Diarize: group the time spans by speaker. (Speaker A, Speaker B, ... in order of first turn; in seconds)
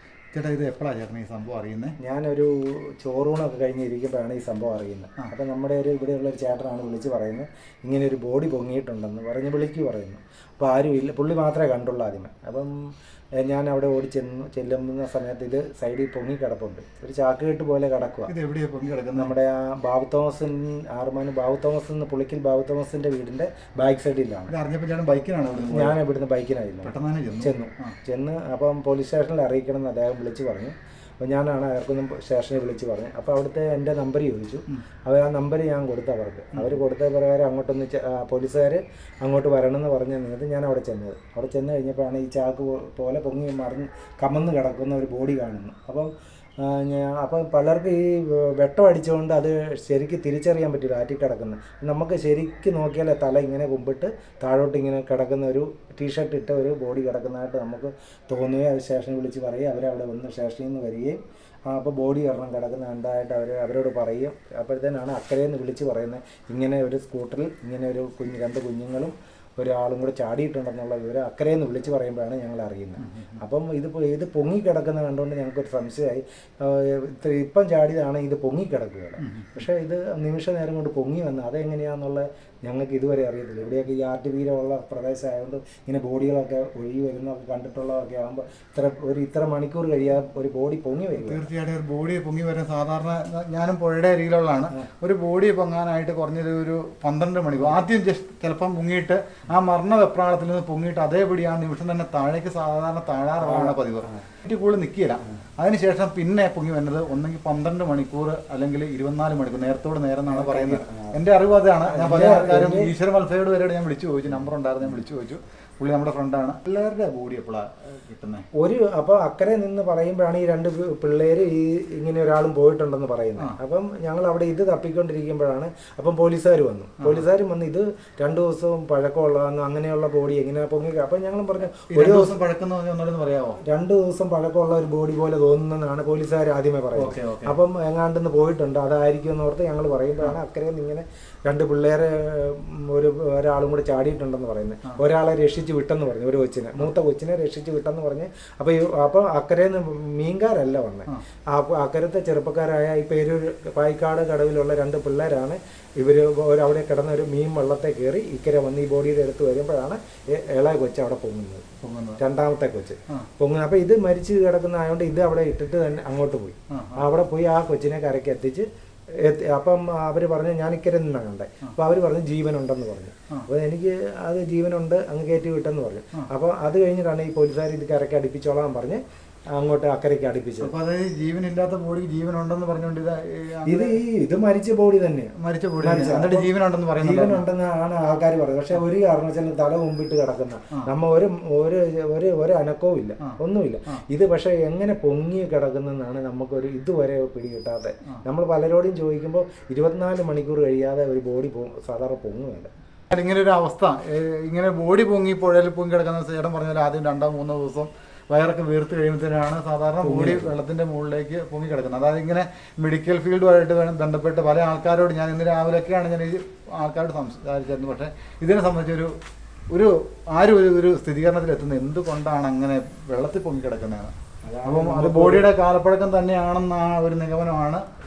Speaker A: 0.3-2.0, 18.3-19.3, 24.5-26.0, 26.8-27.9, 36.5-36.8, 73.0-73.4, 79.2-79.7, 91.2-118.5, 131.9-133.6, 136.9-137.6, 161.8-162.2, 166.7-167.1, 180.6-184.0, 185.4-187.4, 203.1-219.2, 219.7-224.1, 224.7-227.8
Speaker B: 2.0-18.3, 19.2-24.5, 25.7-46.1, 46.6-91.5, 103.4-104.2, 110.3-111.2, 111.9-112.9, 118.5-132.4, 133.6-161.7, 162.2-179.0, 179.5-180.7, 183.7-186.5, 187.0-202.7, 210.0-210.5, 224.4-225.5